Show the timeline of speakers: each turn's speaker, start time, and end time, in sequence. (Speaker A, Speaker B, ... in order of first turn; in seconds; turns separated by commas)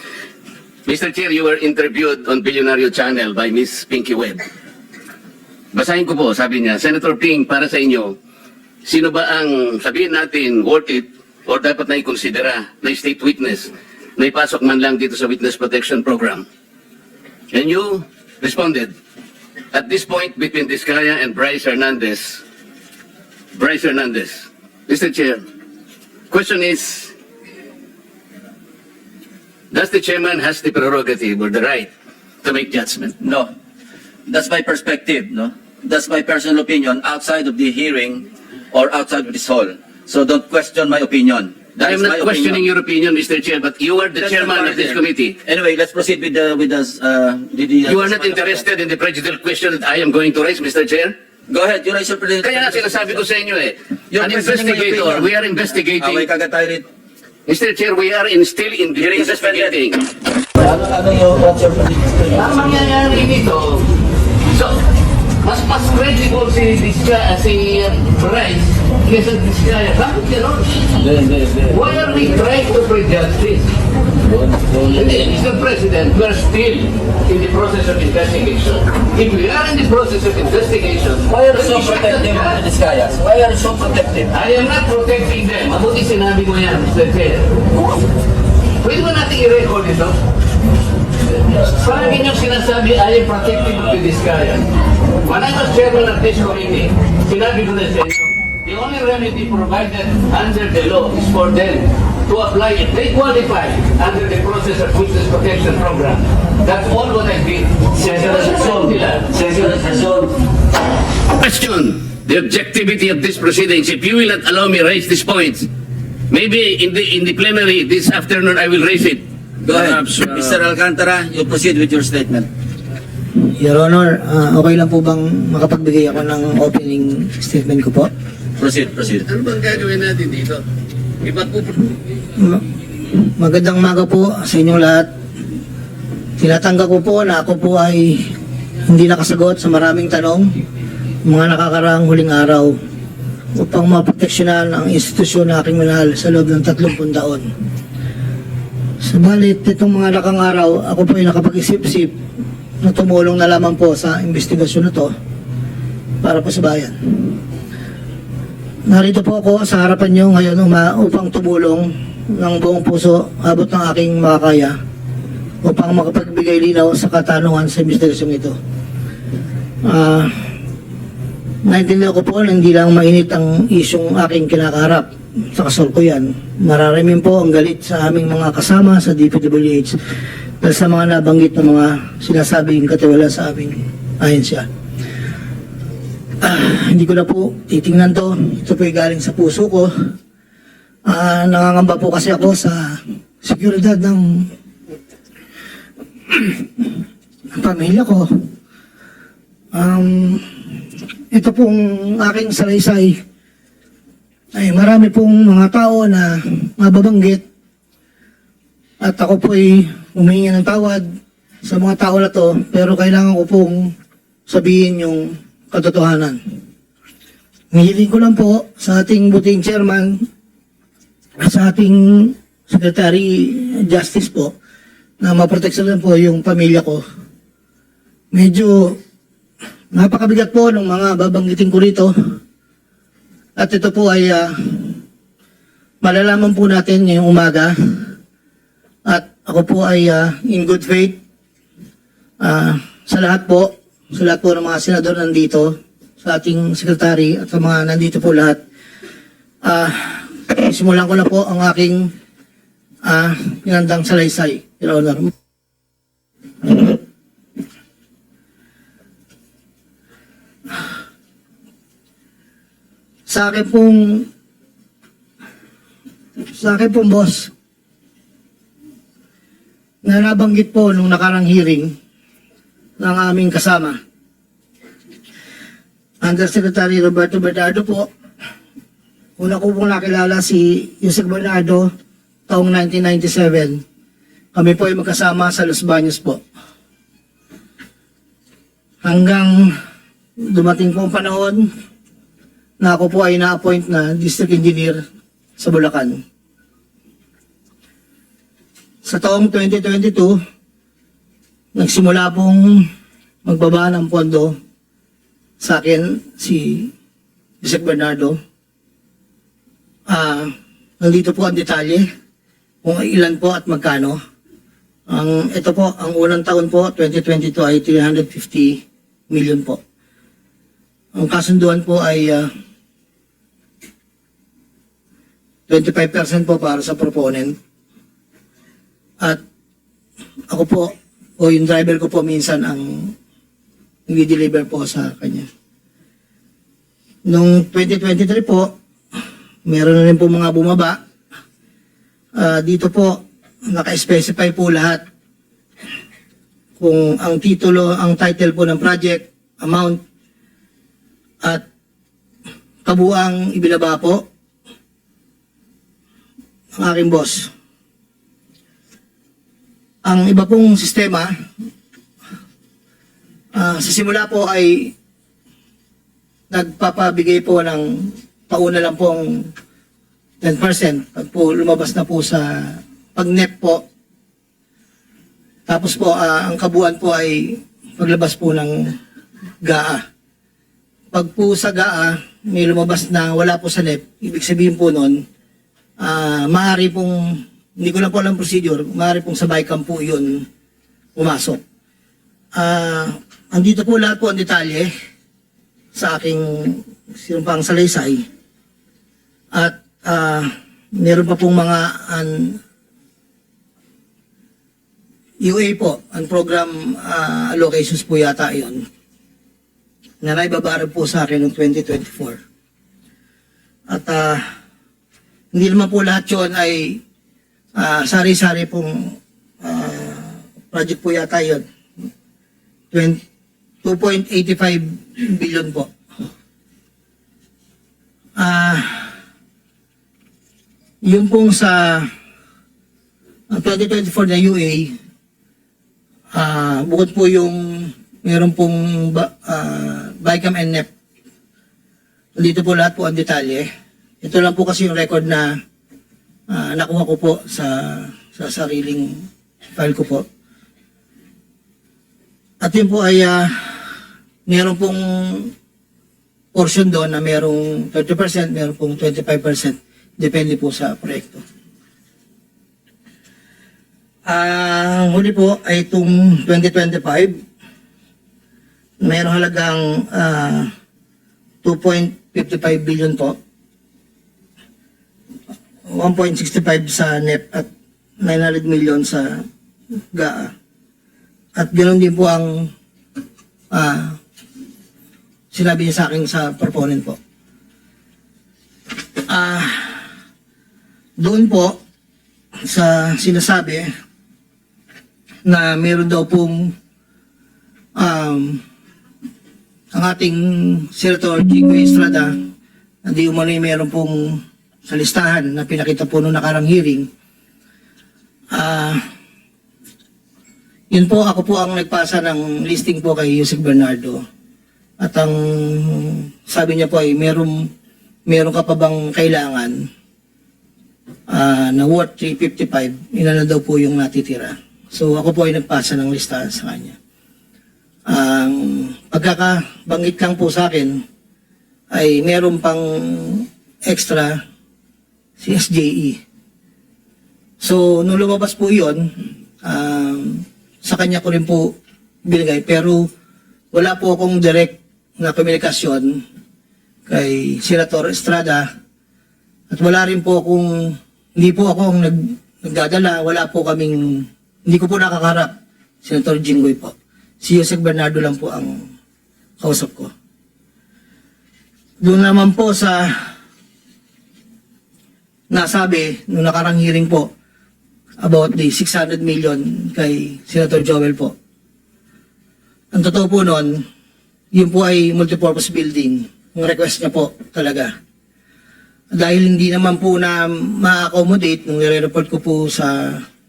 Speaker A: 0.8-4.4, Speaker A: 5.7-8.2, Speaker A: 8.8-16.4, Speaker A: 17.5-18.9, Speaker A: 19.7-22.4, Speaker A: 23.5-25.4, Speaker A: 26.3-27.1, Speaker A: 29.7-31.9, Speaker A: 32.4-33.1, Speaker B: 33.2-33.5, Speaker B: 34.3-42.6, Speaker A: 41.8-45.4, Speaker B: 44.2-48.6, Speaker A: 47.9-51.1, Speaker B: 51.5-53.2, Speaker A: 52.4-56.3, Speaker B: 54.1-55.3, Speaker B: 56.0-56.9, Speaker A: 57.5-60.0, Speaker B: 59.0-59.8, Speaker B: 60.6-62.5, Speaker A: 62.3-63.9, Speaker A: 64.5-64.8, Speaker A: 65.4-70.8, Speaker B: 71.0-71.7, Speaker A: 71.6-73.7, Speaker B: 74.3-75.0, Speaker A: 74.8-82.6, Speaker B: 81.3-84.3, Speaker A: 84.3-87.6, Speaker A: 88.8-90.2, Speaker A: 91.5-94.7, Speaker A: 95.2-109.4, Speaker B: 108.0-110.3, Speaker A: 111.3-115.7, Speaker A: 116.3-120.6, Speaker B: 119.6-122.5, Speaker C: 123.6-128.1, Speaker B: 128.6-129.2, Speaker A: 129.2-130.6, Speaker A: 131.2-131.9, Speaker C: 132.3-135.1, Speaker C: 136.4-138.2, Speaker C: 138.9-140.5, Speaker C: 141.2-142.7, Speaker C: 143.6-147.4, Speaker C: 149.0-152.1, Speaker C: 152.8-155.1, Speaker C: 156.2-157.4, Speaker C: 158.9-164.8, Speaker C: 165.6-168.5, Speaker C: 169.8-170.3, Speaker C: 171.6-180.0, Speaker C: 180.6-184.7, Speaker C: 186.4-189.9, Speaker C: 191.1-194.4, Speaker C: 197.5-198.3, Speaker C: 199.7-200.4, Speaker C: 201.3-203.2, Speaker C: 204.5-207.4, Speaker C: 209.0-211.0, Speaker C: 211.6-213.9, Speaker C: 214.5-216.4, Speaker C: 217.7-220.2, Speaker C: 221.4-224.5, Speaker C: 225.2-227.0, Speaker C: 228.3-228.9, Speaker C: 229.9-232.1, Speaker C: 233.6-235.0, Speaker C: 236.0-238.1, Speaker C: 239.1-241.2, Speaker C: 242.4-248.6, Speaker C: 249.6-252.1, Speaker C: 253.0-255.3, Speaker C: 256.6-256.9, Speaker C: 263.3-264.2, Speaker C: 266.5-267.5, Speaker C: 270.0-271.9, Speaker C: 273.0-274.0, Speaker C: 276.2-278.1, Speaker C: 279.4-281.9, Speaker C: 282.5-283.8, Speaker C: 284.5-286.4, Speaker C: 289.0-289.7, Speaker C: 290.5-291.6, Speaker C: 292.8-295.0, Speaker C: 295.6-296.2, Speaker C: 299.0-300.4, Speaker C: 301.7-302.7, Speaker C: 303.4-304.5, Speaker C: 305.6-306.9, Speaker C: 307.6-308.4, Speaker C: 310.1-312.0, Speaker C: 312.8-314.2, Speaker C: 315.1-319.8, Speaker C: 321.1-322.5, Speaker C: 325.7-327.5, Speaker C: 330.5-333.1, Speaker C: 334.1-335.4, Speaker C: 337.3-338.7, Speaker C: 339.6-341.0, Speaker C: 342.4-345.0, Speaker C: 346.8-350.0, Speaker C: 352.8-354.2, Speaker C: 356.8-357.5, Speaker C: 360.0-361.3, Speaker C: 363.5-364.9, Speaker C: 366.5-369.5, Speaker C: 370.4-373.8, Speaker C: 375.7-378.9, Speaker C: 379.6-380.0, Speaker C: 381.1-385.2, Speaker C: 386.0-390.4, Speaker C: 391.1-391.6, Speaker C: 392.5-394.9, Speaker C: 395.9-398.2, Speaker C: 399.5-402.6, Speaker C: 405.4-408.8, Speaker C: 410.2-412.4, Speaker C: 413.9-414.4, Speaker C: 415.5-417.0, Speaker C: 417.8-421.6, Speaker C: 422.9-423.2, Speaker C: 423.8-425.9, Speaker C: 428.4-429.2, Speaker C: 431.0-432.1, Speaker C: 433.5-434.9, Speaker C: 436.3-440.9, Speaker C: 442.4-443.7, Speaker C: 444.2-445.5, Speaker C: 446.5-449.1, Speaker C: 449.7-450.2, Speaker C: 452.6-453.9, Speaker C: 454.4-455.5, Speaker C: 456.5-461.4, Speaker C: 464.2-467.3, Speaker C: 469.0-470.7, Speaker C: 471.6-473.4, Speaker C: 475.9-477.7, Speaker C: 478.2-479.4, Speaker C: 480.1-480.5, Speaker C: 481.6-482.7, Speaker C: 483.7-484.2, Speaker C: 485.5-487.2, Speaker C: 489.3-490.0, Speaker C: 491.2-491.8, Speaker C: 492.7-493.9, Speaker C: 495.4-496.7, Speaker C: 498.0-498.6, Speaker C: 499.9-502.4, Speaker C: 503.1-507.1, Speaker C: 508.5-509.0, Speaker C: 510.9-514.2, Speaker C: 515.0-517.6, Speaker C: 518.3-519.7, Speaker C: 521.3-527.0, Speaker C: 528.1-531.0, Speaker C: 531.9-534.4, Speaker C: 535.4-536.2, Speaker C: 537.6-539.1, Speaker C: 539.6-541.7, Speaker C: 542.2-543.1, Speaker C: 543.7-546.2, Speaker C: 547.1-548.6, Speaker C: 549.7-558.8, Speaker C: 559.6-560.1, Speaker C: 562.0-563.3, Speaker C: 565.5-567.3, Speaker C: 568.2-571.3, Speaker C: 572.9-573.8, Speaker C: 574.5-577.9, Speaker C: 579.1-583.2